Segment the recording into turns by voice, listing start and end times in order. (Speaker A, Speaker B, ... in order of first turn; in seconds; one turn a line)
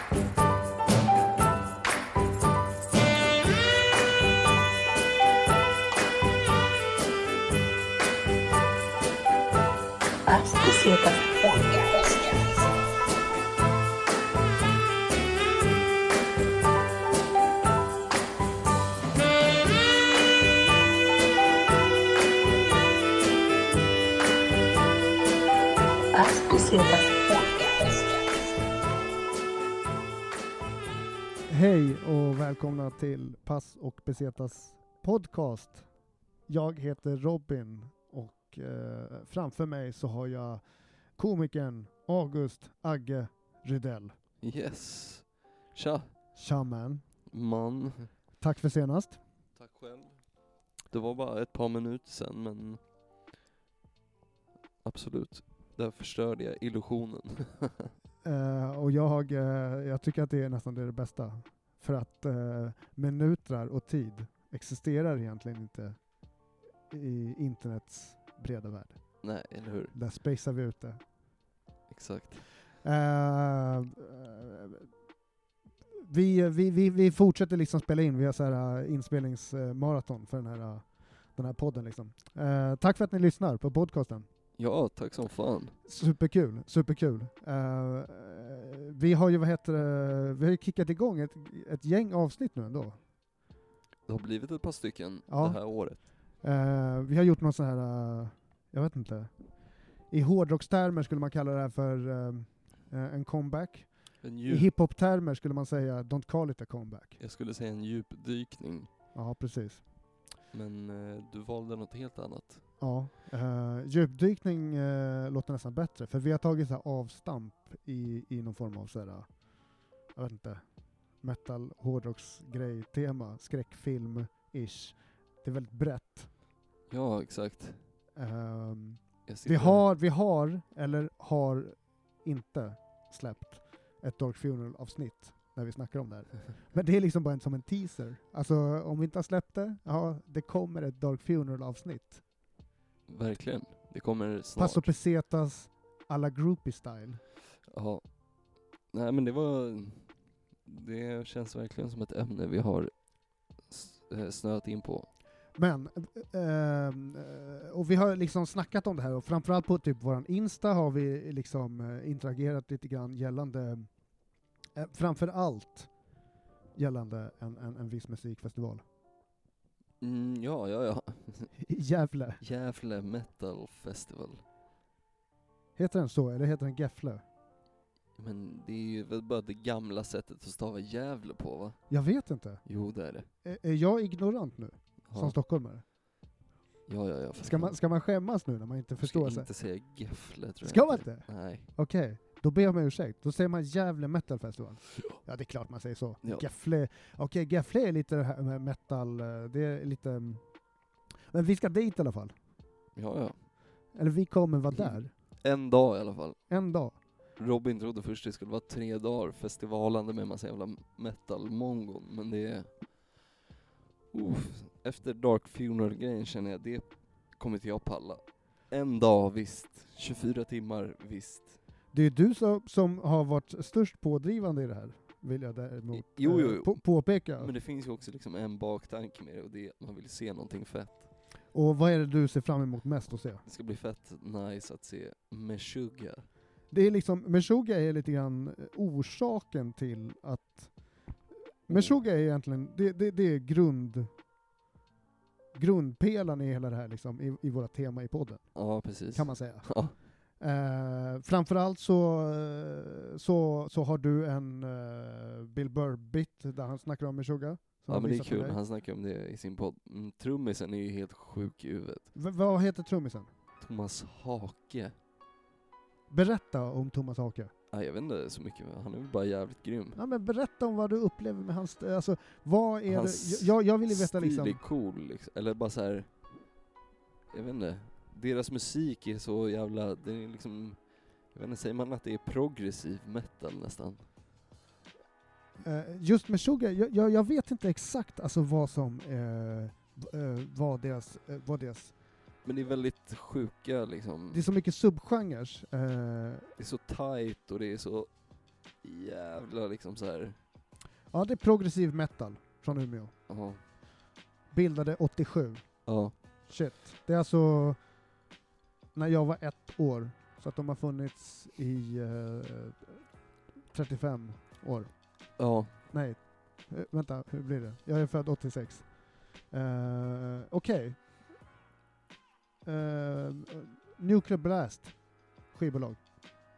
Speaker A: 10.2-12.6
Speaker A: 26.1-28.2
Speaker B: 31.5-35.9
Speaker B: 36.5-40.6
Speaker B: 41.2-44.1
Speaker C: 44.4-46.1
Speaker B: 46.4-47.0
Speaker C: 47.3-48.1
Speaker B: 48.4-49.2
Speaker C: 49.6-50.3
Speaker C: 50.9-52.8
Speaker C: 54.8-57.9
Speaker B: 58.2-66.0
Speaker B: 66.9-71.0
Speaker C: 69.2-69.9
Speaker C: 71.9-72.4
Speaker B: 72.8-74.9
Speaker B: 76.0-84.3
Speaker C: 84.6-85.8
Speaker B: 85.8-93.0
Speaker C: 94.1-96.0
Speaker B: 95.3-107.2
Speaker C: 104.2-104.7
Speaker C: 107.2-108.9
Speaker B: 109.1-109.8
Speaker C: 110.5-112.7
Speaker B: 112.8-119.5
Speaker B: 120.1-120.7
Speaker B: 121.2-126.3
Speaker C: 126.9-127.8
Speaker B: 128.2-142.2
Speaker C: 129.3-129.8
Speaker C: 143.1-144.9
Speaker B: 144.6-147.2
Speaker C: 147.7-148.0
Speaker C: 148.9-150.1
Speaker C: 150.7-152.9
Speaker C: 153.6-155.1
Speaker B: 155.6-163.9
Speaker B: 164.8-165.9
Speaker B: 166.8-168.8
Speaker C: 170.0-171.5
Speaker B: 171.6-172.4
Speaker C: 172.4-174.4
Speaker B: 175.8-177.2
Speaker C: 178.2-181.8
Speaker B: 181.9-182.6
Speaker C: 182.7-183.3
Speaker B: 183.4-185.8
Speaker C: 185.1-185.3
Speaker C: 186.9-187.8
Speaker B: 187.4-189.5
Speaker C: 189.0-191.7
Speaker B: 190.6-200.5
Speaker B: 201.3-202.4
Speaker C: 203.0-203.3
Speaker B: 203.9-205.1
Speaker C: 204.7-206.4
Speaker B: 206.5-207.0
Speaker C: 207.4-213.0
Speaker C: 214.1-221.6
Speaker B: 221.9-227.5
Speaker C: 225.9-231.1
Speaker B: 231.5-233.4
Speaker C: 233.5-236.3
Speaker B: 236.7-240.7
Speaker B: 241.7-244.1
Speaker C: 241.7-241.9
Speaker B: 245.6-258.6
Speaker C: 248.5-249.9
Speaker C: 257.9-262.1
Speaker B: 262.1-263.3
Speaker C: 263.6-264.9
Speaker B: 266.1-267.5
Speaker C: 267.7-270.0
Speaker B: 269.9-274.6
Speaker C: 272.9-276.1
Speaker C: 277.3-284.1
Speaker B: 285.6-291.9
Speaker C: 292.4-294.4
Speaker B: 294.3-296.5
Speaker C: 296.6-298.1
Speaker C: 298.8-300.4
Speaker B: 301.1-303.1
Speaker C: 303.3-303.6
Speaker B: 304.5-305.6
Speaker C: 305.9-306.1
Speaker B: 306.5-307.8
Speaker B: 308.9-313.0
Speaker B: 313.7-315.0
Speaker C: 315.4-315.7
Speaker B: 315.9-321.1
Speaker B: 322.6-324.9
Speaker B: 325.5-326.0